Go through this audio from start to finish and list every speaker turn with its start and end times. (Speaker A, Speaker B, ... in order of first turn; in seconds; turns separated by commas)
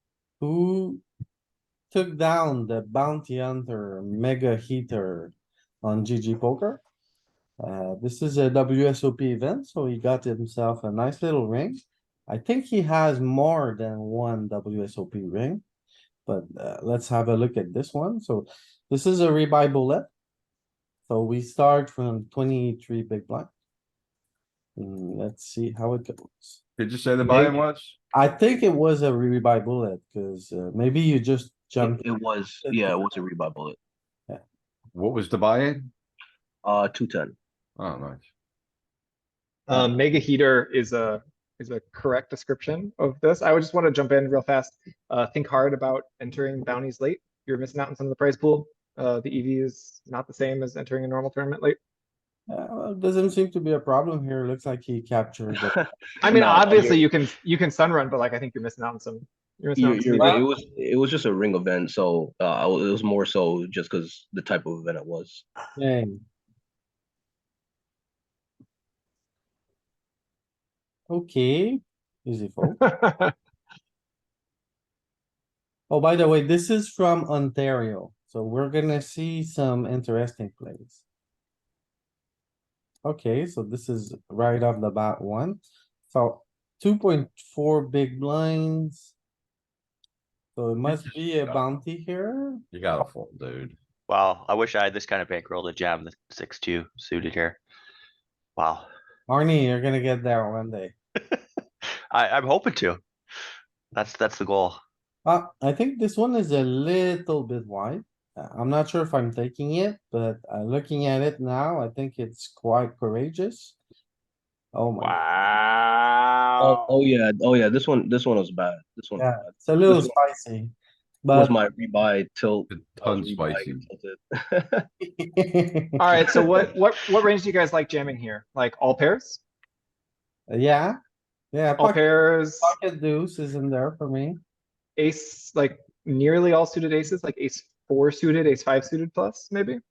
Speaker A: 0.4-1.0, Speaker A: 1.9-6.8, Speaker A: 7.6-15.6, Speaker A: 16.3-20.1, Speaker A: 21.1-23.5, Speaker A: 24.8-26.6, Speaker B: 26.8-28.0, Speaker A: 27.2-27.6, Speaker A: 28.1-32.1, Speaker C: 31.8-33.8, Speaker A: 32.6-33.0, Speaker B: 34.9-35.9, Speaker C: 36.6-37.4, Speaker B: 37.8-38.3, Speaker D: 39.7-51.8, Speaker A: 52.5-55.8, Speaker D: 56.2-60.5, Speaker C: 56.2-57.1, Speaker C: 59.8-65.5, Speaker A: 65.8-66.2, Speaker A: 71.1-72.8, Speaker D: 72.8-73.3, Speaker A: 75.9-81.0, Speaker A: 83.0-89.1, Speaker A: 90.6-92.6, Speaker B: 90.9-91.6, Speaker B: 92.7-93.8, Speaker E: 94.1-97.6, Speaker E: 98.6-98.9, Speaker A: 99.3-100.9, Speaker E: 102.1-103.0, Speaker E: 103.9-104.8, Speaker A: 105.2-113.8, Speaker A: 114.7-115.2, Speaker C: 116.6-120.1, Speaker A: 119.2-120.7, Speaker A: 121.2-121.5, Speaker C: 121.3-124.8, Speaker B: 122.7-123.8, Speaker A: 125.0-126.4, Speaker D: 126.0-129.4, Speaker A: 130.5-131.0, Speaker A: 131.5-132.0, Speaker D: 131.8-132.8, Speaker A: 132.6-134.4, Speaker D: 135.0-139.8